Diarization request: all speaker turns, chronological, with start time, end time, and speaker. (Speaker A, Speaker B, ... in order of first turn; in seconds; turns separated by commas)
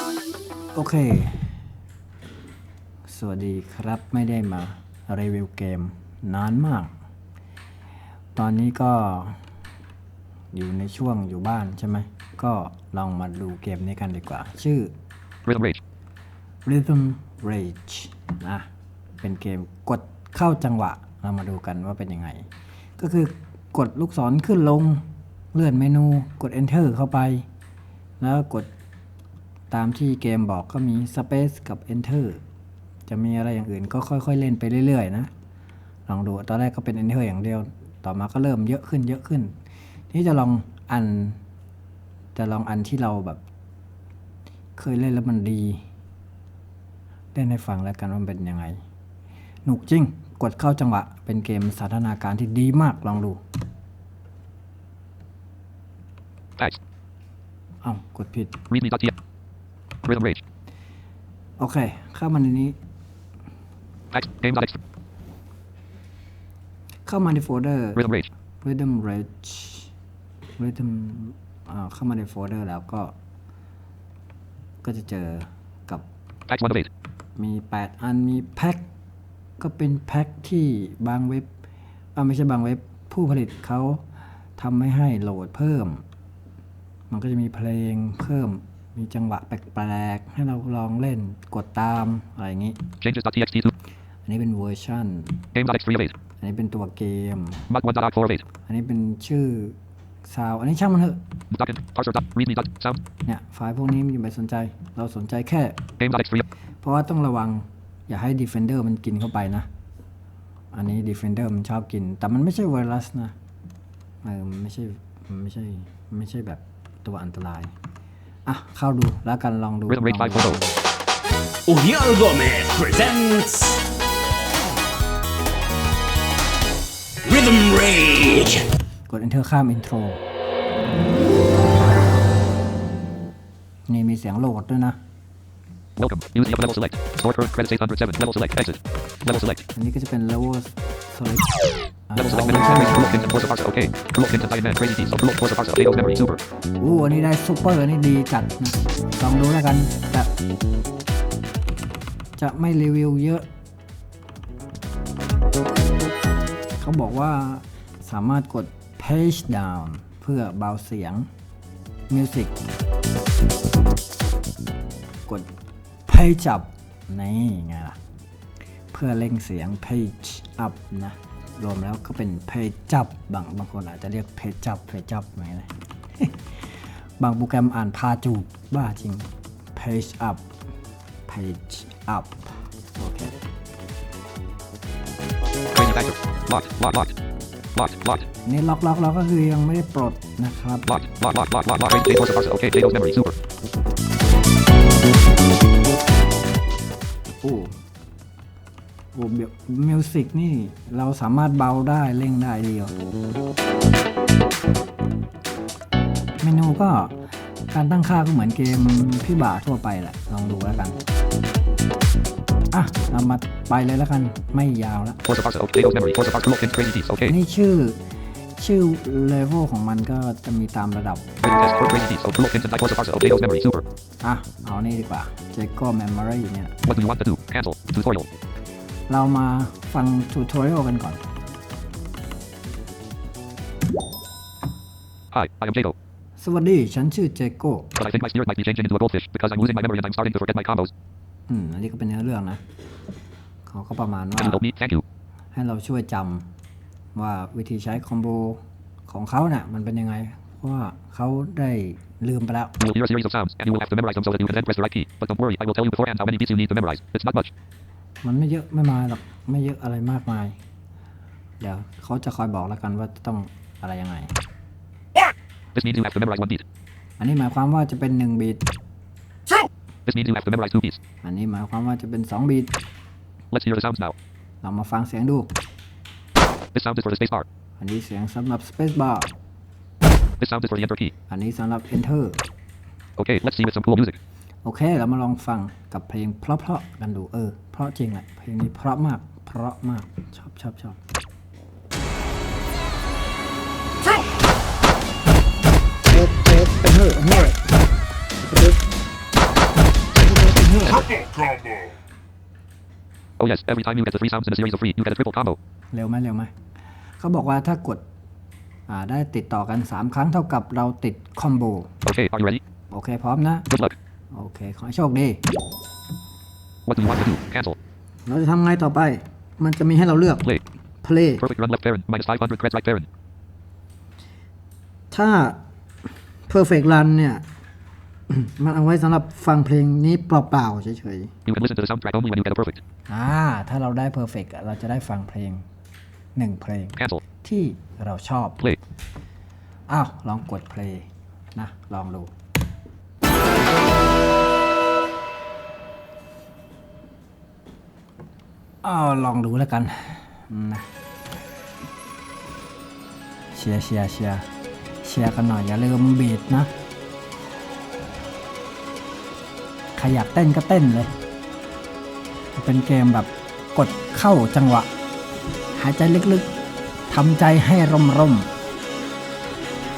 Speaker A: 0.7-1.6, Speaker A: 3.1-6.9, Speaker A: 8.3-9.4, Speaker A: 10.5-14.9, Speaker B: 15.4-15.8, Speaker A: 16.6-18.7, Speaker A: 19.2-27.4, Speaker A: 28.2-28.7, Speaker A: 29.7-32.4, Speaker A: 33.1-35.3, Speaker A: 36.1-39.5, Speaker A: 40.1-41.4, Speaker A: 42.3-43.4, Speaker A: 44.8-45.8, Speaker A: 47.3-48.8, Speaker A: 49.6-53.4, Speaker A: 57.8-58.6, Speaker B: 58.7-59.1, Speaker B: 60.0-60.4, Speaker A: 61.6-62.8, Speaker B: 64.1-64.8, Speaker A: 67.0-68.0, Speaker B: 68.0-68.3, Speaker A: 68.6-69.9, Speaker A: 70.6-73.1, Speaker A: 74.8-76.0, Speaker B: 76.5-76.9, Speaker A: 77.4-78.8, Speaker A: 79.6-81.5, Speaker A: 82.1-84.0, Speaker A: 84.6-86.0, Speaker A: 87.1-92.8, Speaker B: 93.0-93.7, Speaker A: 94.3-95.4, Speaker B: 95.5-96.1, Speaker A: 96.4-97.7, Speaker B: 97.7-98.5, Speaker A: 98.7-101.2, Speaker B: 101.5-103.0, Speaker A: 103.2-105.8, Speaker B: 106.0-106.5, Speaker A: 106.8-109.7, Speaker A: 110.7-113.3, Speaker A: 114.2-117.7, Speaker A: 118.5-120.8, Speaker B: 119.9-120.6, Speaker C: 121.7-123.8, Speaker C: 127.2-128.6, Speaker A: 129.1-130.2, Speaker A: 133.9-135.0, Speaker B: 136.0-139.6, Speaker A: 139.7-143.1, Speaker B: 142.2-146.4, Speaker A: 146.8-150.3, Speaker A: 152.4-153.4, Speaker A: 156.8-161.3, Speaker A: 162.1-162.7, Speaker A: 166.1-168.0, Speaker A: 168.9-180.4, Speaker A: 181.3-183.3, Speaker B: 185.7-187.1, Speaker B: 187.7-188.2, Speaker A: 188.4-190.9, Speaker B: 190.9-193.3, Speaker A: 197.4-197.8, Speaker A: 199.1-202.9, Speaker A: 206.4-211.0, Speaker A: 212.7-215.2, Speaker B: 215.2-217.3, Speaker A: 217.2-218.0, Speaker A: 218.6-221.3, Speaker B: 221.4-223.8, Speaker A: 224.2-226.7, Speaker B: 226.8-228.3, Speaker A: 229.1-231.2, Speaker B: 235.3-235.9, Speaker A: 236.4-237.9, Speaker B: 237.9-240.9, Speaker A: 241.5-242.6, Speaker A: 243.7-244.6, Speaker B: 244.4-245.0, Speaker A: 245.5-246.5, Speaker A: 247.1-252.7, Speaker B: 252.8-257.5, Speaker A: 258.2-260.6, Speaker A: 261.6-264.3, Speaker B: 265.7-266.6, Speaker A: 267.2-268.6, Speaker B: 270.1-271.0, Speaker A: 271.2-272.7, Speaker B: 273.5-274.1, Speaker A: 274.6-275.5, Speaker B: 276.7-277.4, Speaker A: 277.8-279.3, Speaker B: 280.4-281.1, Speaker A: 281.3-282.4, Speaker B: 283.2-284.2, Speaker A: 284.6-291.0, Speaker B: 296.1-296.6, Speaker A: 296.1-297.6, Speaker A: 298.4-298.8, Speaker B: 300.1-301.0, Speaker A: 300.3-300.9, Speaker B: 303.4-305.6, Speaker A: 305.9-306.5, Speaker A: 307.2-308.0, Speaker A: 308.9-311.9, Speaker B: 312.0-312.6, Speaker A: 312.9-313.7, Speaker B: 313.7-313.9, Speaker A: 314.3-315.4, Speaker B: 316.9-317.8, Speaker A: 318.2-320.4, Speaker A: 321.0-321.4, Speaker B: 321.4-323.1, Speaker A: 325.1-325.6, Speaker A: 326.5-327.4, Speaker A: 328.3-331.3, Speaker B: 331.5-332.8, Speaker A: 333.1-335.6, Speaker A: 336.4-338.6, Speaker B: 337.0-337.2, Speaker A: 339.9-342.3, Speaker A: 348.8-350.9, Speaker A: 353.5-354.4, Speaker A: 355.0-356.7, Speaker A: 359.9-361.1, Speaker A: 362.5-364.9, Speaker A: 365.7-366.5, Speaker A: 367.1-368.5